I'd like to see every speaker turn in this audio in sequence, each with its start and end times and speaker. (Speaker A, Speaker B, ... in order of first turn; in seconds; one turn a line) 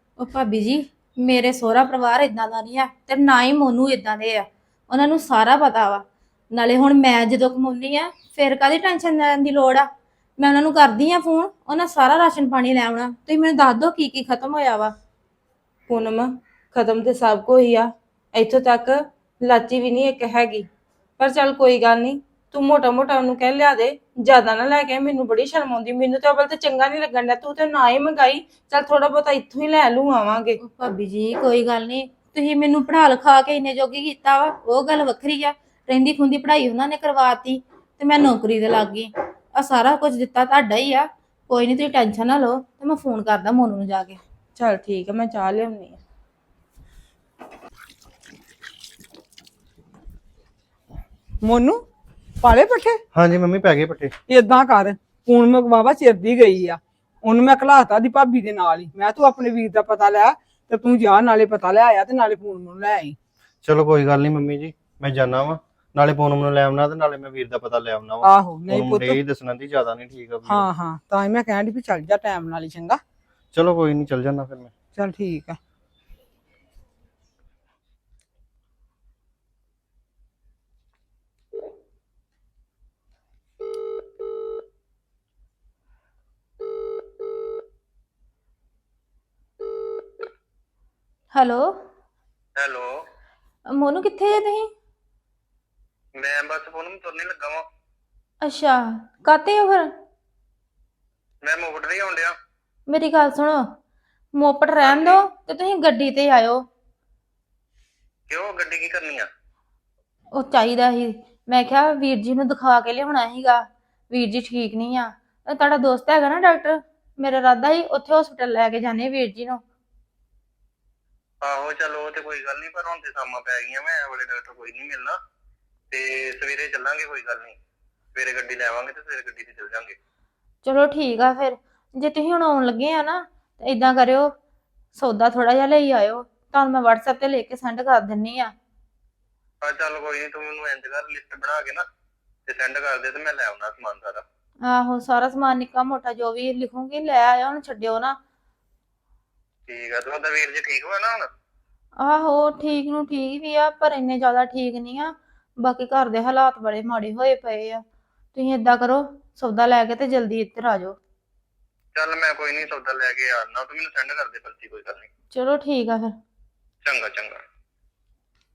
Speaker A: 0.2-14.9
Speaker B: 15.9-20.7
Speaker B: 21.2-30.6
Speaker A: 30.6-44.2
Speaker B: 44.6-46.0
Speaker C: 51.4-51.8
Speaker C: 52.4-53.0
Speaker D: 53.1-54.1
Speaker C: 54.3-63.2
Speaker D: 63.6-70.7
Speaker C: 68.2-69.2
Speaker C: 70.5-73.0
Speaker D: 73.5-74.7
Speaker C: 75.0-75.6
Speaker A: 91.3-91.8
Speaker E: 92.6-92.9
Speaker A: 93.7-94.7
Speaker E: 96.2-97.7
Speaker A: 98.4-99.9
Speaker E: 101.4-102.3
Speaker A: 102.9-103.7
Speaker A: 104.3-106.7
Speaker E: 104.8-105.3
Speaker E: 108.3-109.3
Speaker A: 110.3-119.6
Speaker E: 121.4-125.2
Speaker E: 125.9-127.6
Speaker E: 128.2-129.9
Speaker A: 130.6-134.3
Speaker A: 134.9-138.5
Speaker E: 139.6-141.8
Speaker E: 142.5-144.2
Speaker A: 144.6-148.2
Speaker E: 149.7-151.3
Speaker A: 152.0-157.8
Speaker A: 158.3-161.0
Speaker E: 161.9-165.1
Speaker A: 165.3-166.2
Speaker E: 166.8-167.4